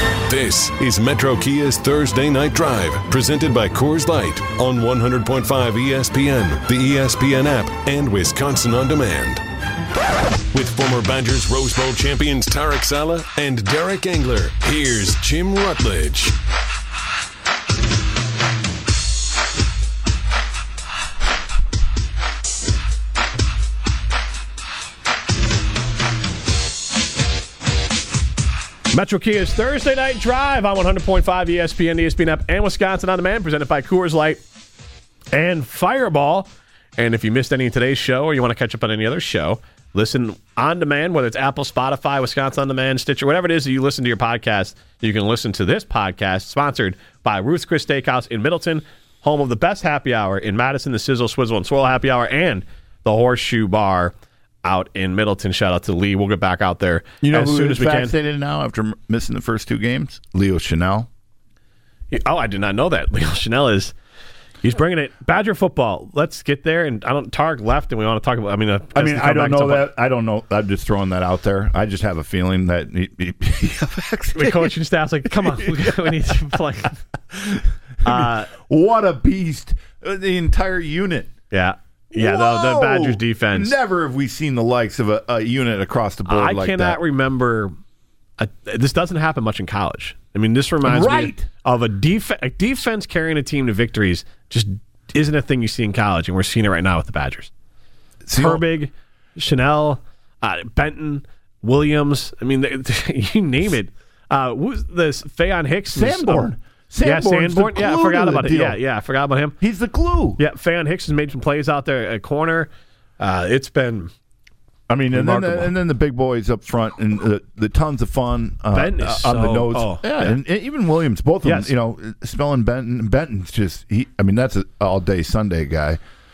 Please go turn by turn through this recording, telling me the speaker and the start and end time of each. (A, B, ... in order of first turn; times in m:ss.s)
0:00.3-0:09.4 A
0:10.5-0:16.4 A
0:28.9-0:34.4 B
0:35.3-0:54.1 B
0:54.6-0:58.1 B
0:57.2-1:01.1 C
1:02.1-1:03.9 B
1:04.6-1:09.9 B
1:08.9-1:14.7 C
1:14.3-1:17.0 B
1:15.3-1:16.4 C
1:17.3-1:21.3 C
1:18.0-1:18.5 B
1:21.5-1:23.8 B
1:22.1-1:27.0 C
1:26.2-1:27.7 B
1:28.4-1:37.5 B
1:30.8-1:31.5 C
1:38.2-1:38.6 C
1:38.3-1:46.5 B
1:45.9-1:48.8 C
1:47.0-1:49.6 B
1:49.6-1:50.4 C
1:50.4-1:54.1 B
1:54.9-2:06.0 C
1:55.1-1:55.7 B
1:58.7-2:00.4 B
2:01.4-2:01.7 B